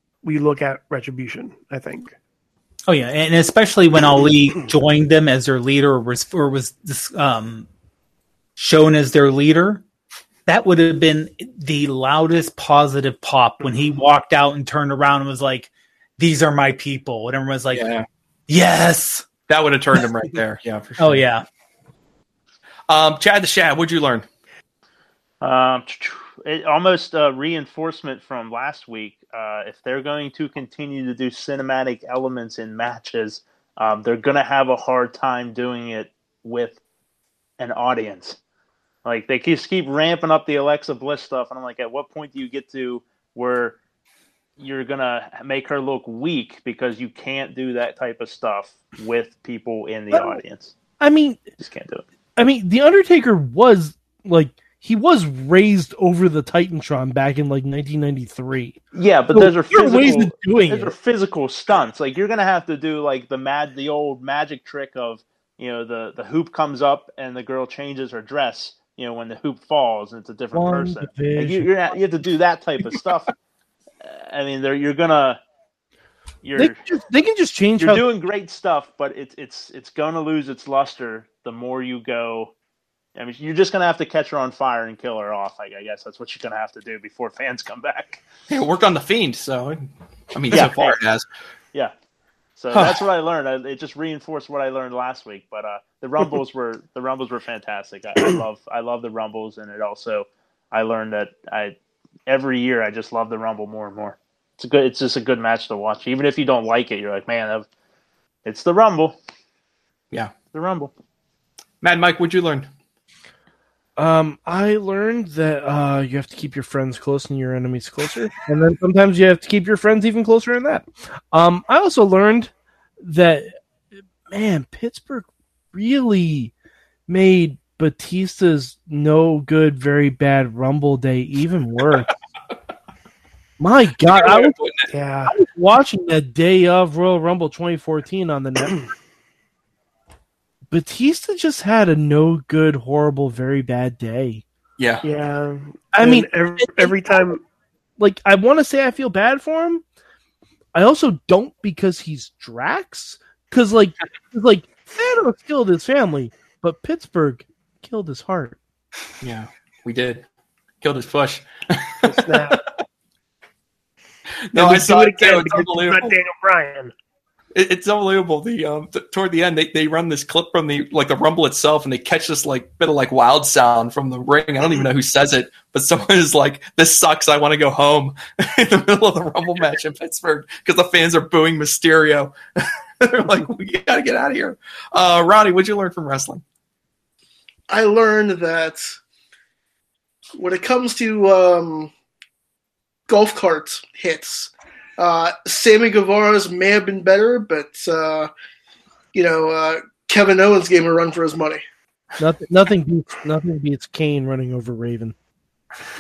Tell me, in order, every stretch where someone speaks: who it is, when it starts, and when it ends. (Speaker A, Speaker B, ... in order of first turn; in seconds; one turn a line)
Speaker A: 0.2-2.1
Speaker B: 2.9-7.7
Speaker B: 8.6-9.8
Speaker B: 10.5-17.9
Speaker C: 17.7-18.1
Speaker B: 18.5-20.1
Speaker C: 19.5-21.3
Speaker B: 21.0-21.4
Speaker C: 22.9-24.3
Speaker D: 25.4-36.8
Speaker D: 37.6-38.4
Speaker D: 39.0-43.8
Speaker D: 44.6-50.7
Speaker E: 50.1-50.4
Speaker E: 51.0-51.4
Speaker D: 51.6-52.0
Speaker E: 52.4-58.8
Speaker D: 58.9-73.3
Speaker E: 59.3-60.9
Speaker E: 70.5-71.7
Speaker D: 74.0-75.4
Speaker D: 76.4-76.8
Speaker E: 76.6-78.0
Speaker D: 77.8-82.5
Speaker D: 83.2-88.2
Speaker C: 88.5-91.3
Speaker D: 90.5-91.0
Speaker D: 92.6-101.8
Speaker C: 92.7-93.0
Speaker D: 102.3-107.7
Speaker D: 108.5-109.2
Speaker D: 110.5-110.9
Speaker C: 111.8-112.7
Speaker E: 114.0-123.6
Speaker E: 124.3-126.5
Speaker E: 127.1-132.1
Speaker E: 133.6-134.6
Speaker C: 134.0-134.9
Speaker A: 134.9-135.3
Speaker E: 135.3-138.8
Speaker E: 140.7-144.4
Speaker C: 144.8-145.1
Speaker A: 145.0-147.4
Speaker E: 145.9-147.3
Speaker E: 148.0-149.8
Speaker E: 150.7-158.6
Speaker C: 159.2-160.2
Speaker C: 160.8-162.2
Speaker A: 162.1-162.6
Speaker C: 164.5-166.2
Speaker A: 164.6-166.9
Speaker C: 167.6-186.4
Speaker F: 187.7-189.0
Speaker F: 190.4-191.9
Speaker F: 193.1-198.3
Speaker F: 199.1-201.6
Speaker E: 202.2-205.2